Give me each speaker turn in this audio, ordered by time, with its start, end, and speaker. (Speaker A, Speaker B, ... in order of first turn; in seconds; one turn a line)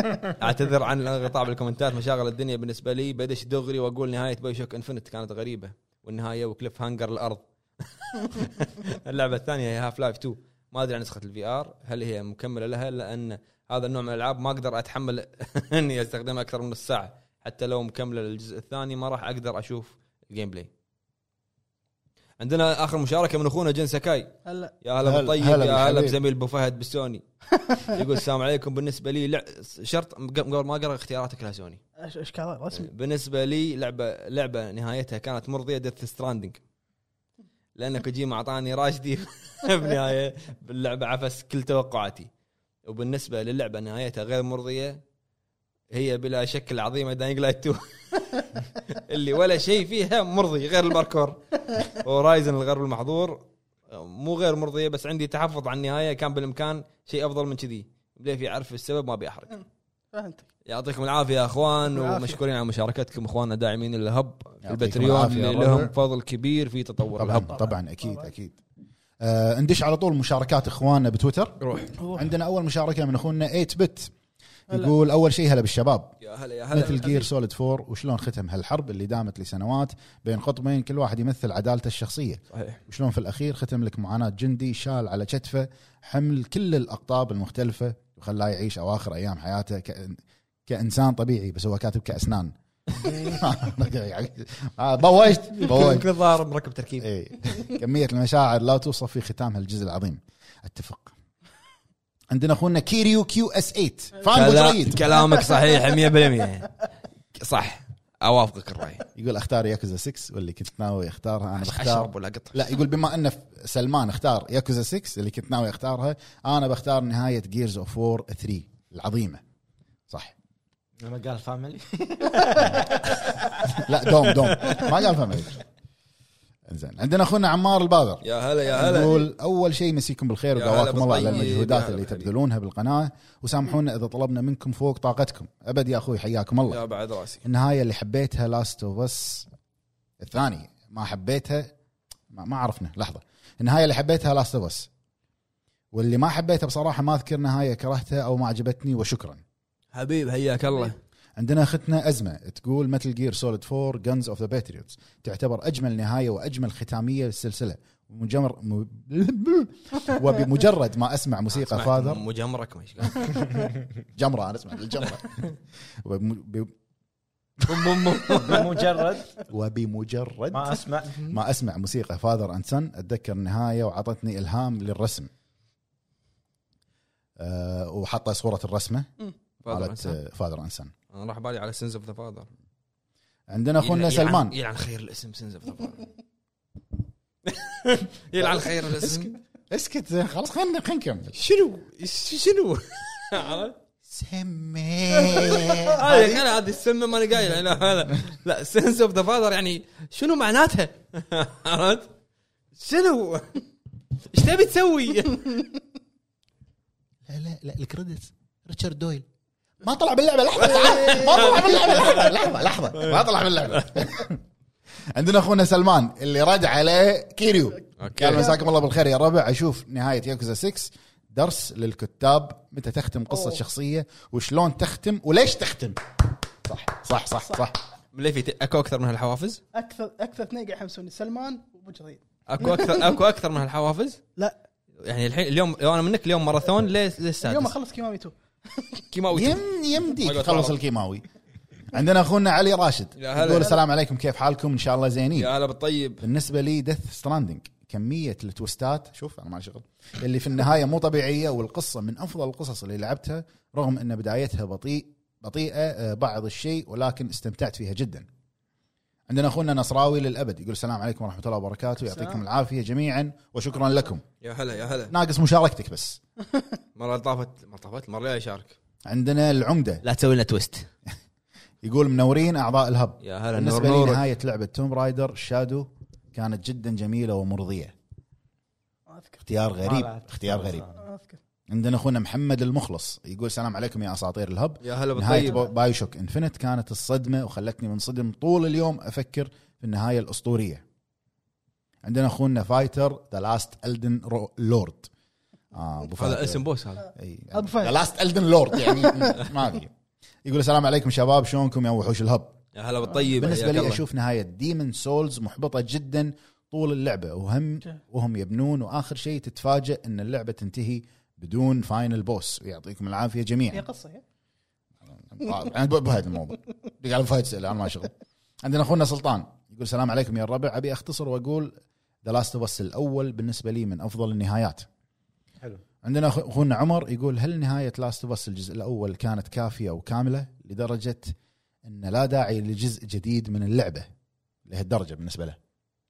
Speaker A: 0.3-20.7
Speaker A: 22.4-27.2
Speaker B: 24.5-24.7
Speaker C: 25.0-26.2
Speaker A: 27.9-31.8
Speaker B: 32.0-32.9
Speaker A: 32.7-36.6
Speaker A: 37.8-42.3
Speaker A: 42.9-45.0
Speaker A: 45.9-59.5
Speaker B: 60.1-60.5
Speaker A: 60.7-67.6
Speaker B: 61.9-62.4
Speaker C: 64.6-65.9
Speaker C: 67.2-68.6
Speaker B: 67.5-68.3
Speaker C: 69.2-71.6
Speaker A: 71.6-71.9
Speaker B: 72.0-72.3
Speaker C: 72.2-74.1
Speaker C: 74.7-76.2
Speaker A: 76.2-77.3
Speaker C: 76.7-96.1
Speaker A: 82.5-82.8
Speaker A: 95.5-97.1
Speaker C: 97.0-101.1
Speaker C: 102.3-105.1
Speaker A: 104.3-106.8
Speaker A: 107.4-109.1
Speaker C: 109.2-119.4
Speaker A: 111.6-112.7
Speaker C: 120.1-120.3
Speaker D: 121.0-123.8
Speaker C: 122.6-122.9
Speaker C: 123.7-125.6
Speaker C: 126.7-136.8
Speaker A: 128.2-129.2
Speaker A: 130.6-132.3
Speaker A: 136.7-137.4
Speaker C: 137.4-139.5
Speaker C: 140.2-141.7
Speaker C: 142.3-144.9
Speaker C: 145.9-149.4
Speaker A: 149.9-151.0
Speaker C: 151.4-162.2
Speaker A: 161.5-163.5
Speaker C: 164.2-165.5
Speaker C: 166.0-166.7
Speaker C: 167.6-168.5
Speaker A: 167.7-168.7
Speaker D: 168.4-169.3
Speaker C: 169.5-175.3
Speaker D: 170.5-171.2
Speaker C: 177.4-179.1
Speaker A: 179.6-180.2
Speaker C: 179.7-180.9
Speaker A: 181.1-182.5
Speaker C: 183.5-184.6
Speaker A: 183.8-186.1
Speaker A: 187.4-189.3
Speaker C: 188.4-191.4
Speaker A: 191.3-193.8
Speaker C: 194.1-196.5
Speaker A: 195.2-202.1
Speaker A: 202.7-203.6
Speaker A: 204.3-205.6
Speaker C: 207.3-209.2
Speaker C: 209.8-214.4
Speaker A: 210.6-212.3
Speaker A: 212.9-214.0
Speaker C: 215.2-226.0
Speaker A: 218.0-218.5
Speaker C: 226.7-227.8
Speaker A: 228.1-229.6
Speaker B: 229.7-233.1
Speaker A: 232.5-234.2
Speaker A: 235.0-237.7
Speaker B: 237.4-239.0
Speaker A: 239.1-240.7
Speaker C: 239.3-241.2
Speaker C: 241.9-245.5
Speaker A: 243.2-243.7
Speaker A: 245.4-246.2
Speaker C: 246.2-258.3
Speaker C: 259.3-264.2
Speaker B: 262.1-262.4
Speaker A: 264.4-265.1
Speaker C: 265.1-266.2
Speaker A: 267.0-268.8
Speaker C: 269.1-270.0
Speaker A: 270.0-270.9
Speaker C: 271.8-277.9
Speaker A: 273.2-274.2
Speaker B: 279.1-279.4
Speaker C: 279.4-280.9
Speaker D: 279.8-281.0
Speaker B: 281.0-281.4
Speaker C: 281.7-290.8
Speaker A: 284.8-285.7
Speaker C: 292.0-295.1
Speaker C: 295.7-296.6
Speaker A: 296.2-297.1
Speaker C: 297.1-299.9
Speaker B: 297.5-298.0
Speaker B: 298.9-299.4
Speaker C: 300.4-302.6
Speaker A: 302.7-304.0
Speaker C: 303.4-313.9
Speaker B: 313.7-314.2
Speaker C: 315.1-318.1
Speaker C: 318.6-321.7
Speaker C: 322.2-324.9
Speaker C: 326.0-331.3
Speaker C: 331.9-334.1
Speaker C: 334.7-335.6